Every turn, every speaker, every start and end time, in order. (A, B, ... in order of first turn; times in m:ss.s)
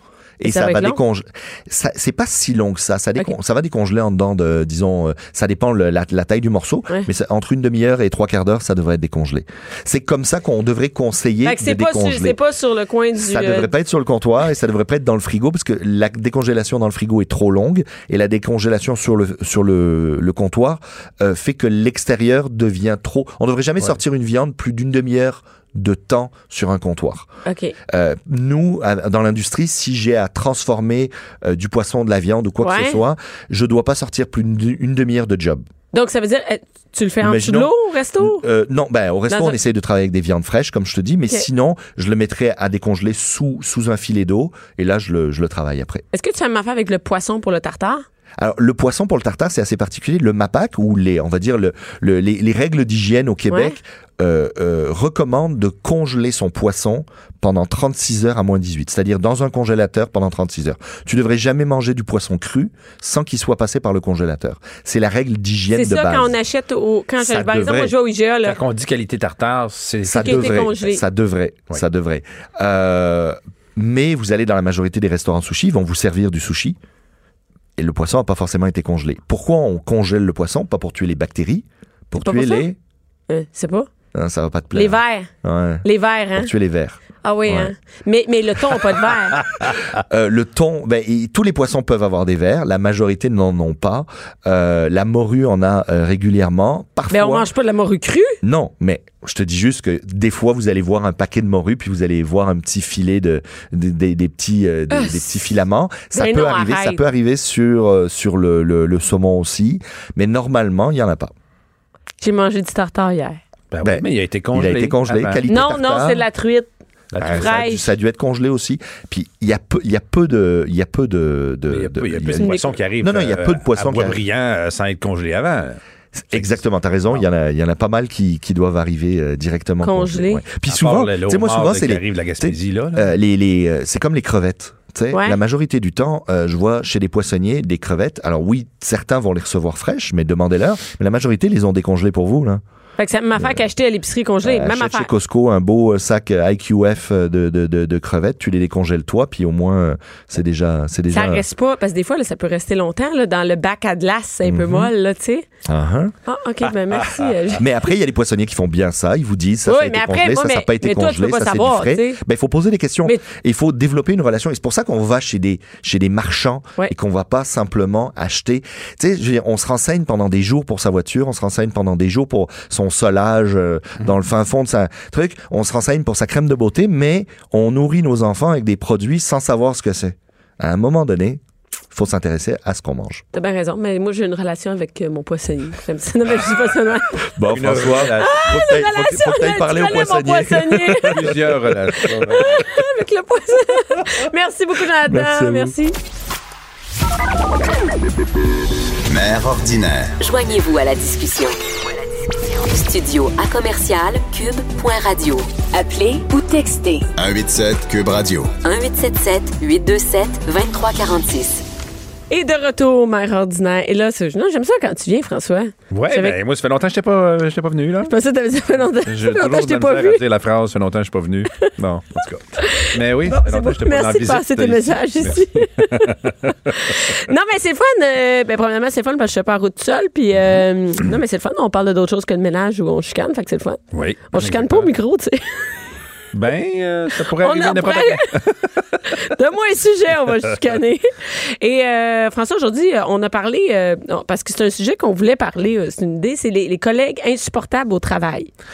0:00.4-0:12.4 A
0:00.4-0:01.0 B
0:11.4-0:13.7 B
0:13.2-0:27.3 A
0:27.5-0:27.8 B
0:27.9-0:35.6 A
0:32.6-0:33.0 B
0:35.9-0:38.4 B
0:37.2-0:46.0 A
0:39.3-0:39.6 B
0:46.1-0:48.0 B
0:48.4-1:06.4 A
0:53.5-0:53.8 B
1:05.7-1:08.6 B
1:07.2-1:08.0 A
1:08.5-1:10.6 C
1:10.1-1:16.8 A
1:10.1-1:11.0 B
1:17.8-1:22.8 A
1:22.2-1:22.6 B
1:23.3-1:23.9 B
1:24.1-1:25.8 A
1:24.7-1:25.3 B
1:25.8-1:26.5 B
1:26.4-1:27.7 A
1:27.2-1:29.4 B
1:30.0-1:37.5 A
1:37.1-1:38.4 B
1:38.4-1:51.3 A
1:44.9-1:45.2 B
1:46.1-1:47.0 B
1:52.2-1:53.4 B
1:53.7-1:55.4 C
1:53.8-1:56.2 A
1:55.5-1:56.7 B
1:57.1-1:57.5 C
1:57.2-1:57.9 B
1:57.2-2:04.2 A
2:01.7-2:05.8 C
2:02.4-2:02.7 B
2:06.2-2:22.6 A
2:06.3-2:06.6 C
2:09.8-2:10.4 B
2:10.7-2:13.2 C
2:15.1-2:15.4 B
2:23.0-2:25.1 B
2:23.4-2:23.6 A
2:24.4-2:31.4 A
2:31.1-2:35.5 B
2:34.5-2:34.9 A
2:35.6-2:36.1 A
2:36.3-2:37.7 B
2:37.6-3:01.4 A
2:39.7-2:42.2 B
3:01.9-3:03.2 A
3:03.3-3:07.2 B
3:07.4-3:11.6 A
3:07.5-3:08.4 C
3:08.2-3:11.2 B
3:11.1-3:12.5 C
3:12.0-3:16.0 B
3:15.0-3:15.7 A
3:19.1-3:20.2 D
3:20.2-3:21.8 E
3:22.3-3:27.1 E
3:27.2-3:28.5 D
3:28.6-3:31.6 E
3:32.3-3:36.4 B
3:35.9-3:38.1 C
3:38.1-3:40.2 B
3:39.1-3:46.7 C
3:42.6-3:53.8 B
3:53.9-3:54.9 C
3:54.3-3:55.8 B
3:56.3-3:59.1 C
3:57.4-3:58.3 B
3:59.0-4:08.5 B